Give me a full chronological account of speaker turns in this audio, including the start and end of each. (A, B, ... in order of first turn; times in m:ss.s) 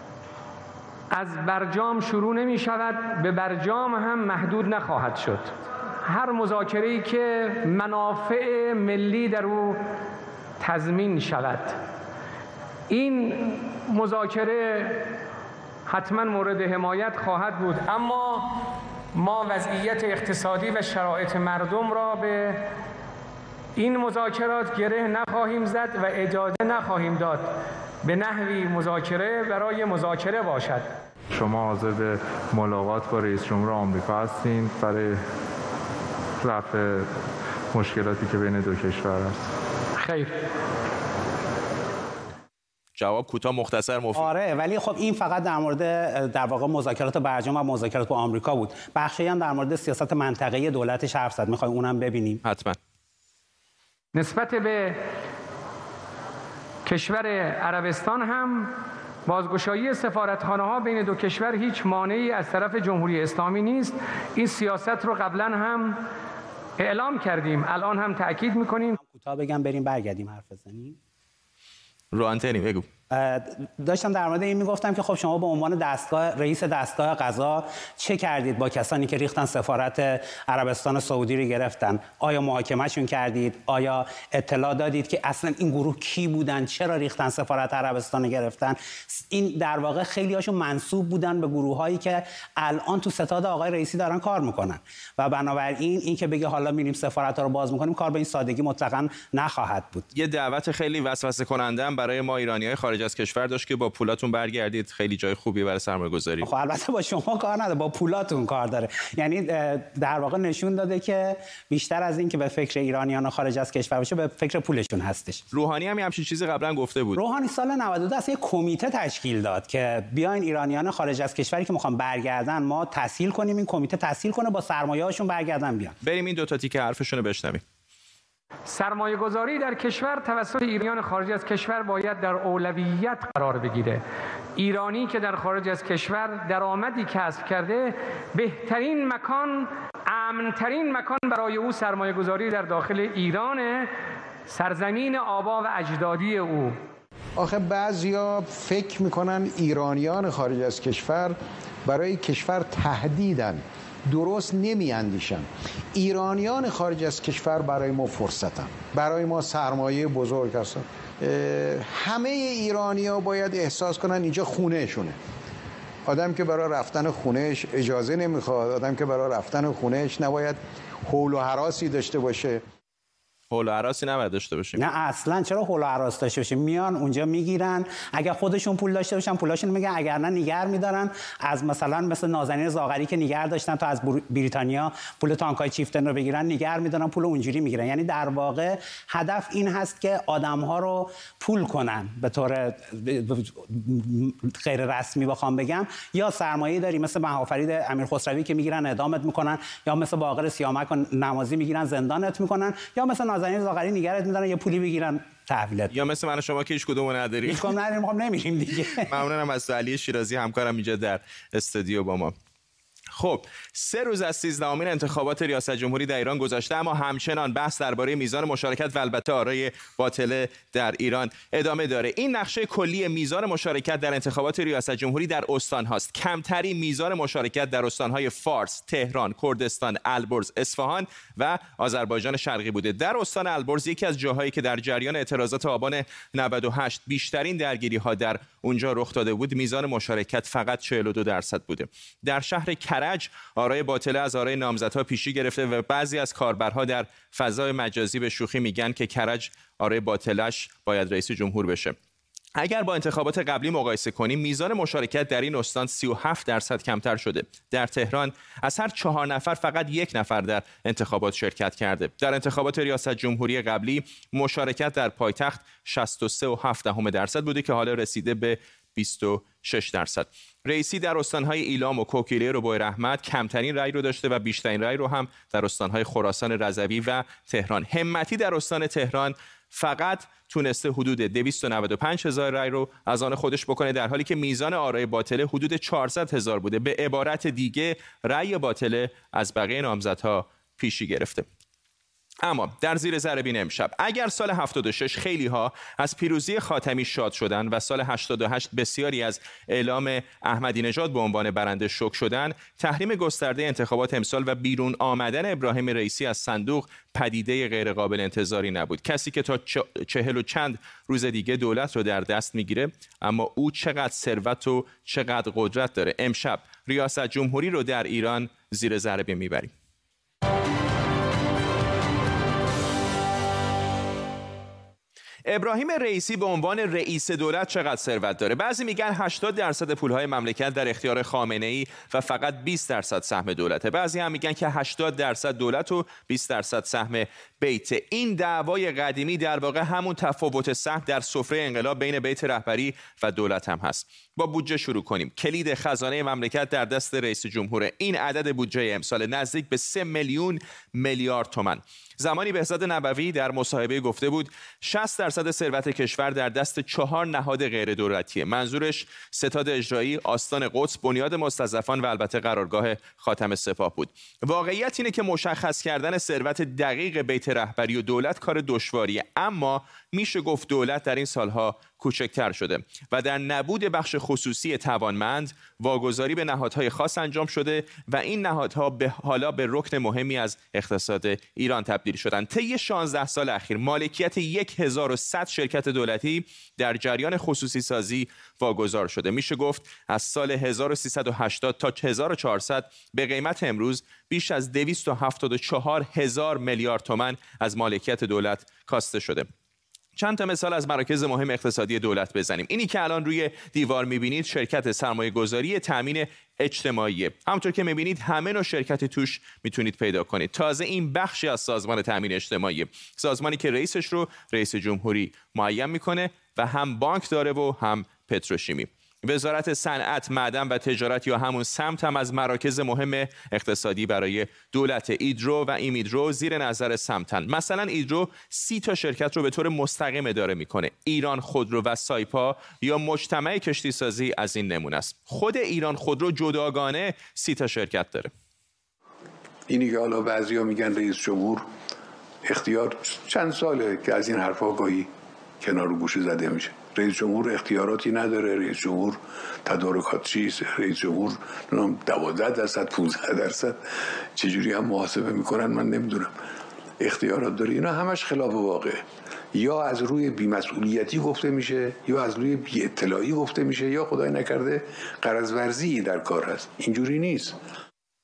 0:01.1-0:05.5 A
0:06.0-0:09.8 A
0:10.6-0:11.8 A
0:12.9-0:15.1 A
0:15.9-0:22.7 A
0:23.8-0:30.9 A
0:31.3-0:35.2 B
0:36.4-0:39.5 B
0:40.0-0:40.3 A
0:43.0-0:44.3 C
0:44.2-0:52.4 D
0:52.4-0:52.8 C
0:54.1-0:55.0 A
0:56.8-0:58.7 A
0:59.3-1:06.0 A
1:06.8-1:09.0 A
1:09.0-1:11.0 D
1:12.1-1:12.9 C
1:13.1-1:40.1 D
1:40.1-1:46.5 C
1:46.4-1:55.4 D
1:55.5-1:57.2 C
1:57.2-2:06.0 D
2:06.0-2:07.6 C
2:08.7-2:14.0 A
2:14.6-2:23.9 A
2:24.5-2:26.8 A
2:27.4-2:45.2 E
2:46.0-2:52.6 E
2:53.5-2:54.8 C
2:54.8-3:26.0 D
3:25.9-3:27.8 C
3:27.4-3:29.1 D
3:29.0-3:32.3 C
3:33.2-4:12.0 C
4:12.6-4:51.5 C
4:52.4-5:19.7 C
5:25.5-6:39.5 C
6:40.2-7:18.3 C
7:19.7-7:21.6 F
7:22.4-7:25.1 F
7:25.6-7:33.8 F
7:34.4-7:36.3 F
7:37.0-7:39.0 F
7:39.5-7:47.6 F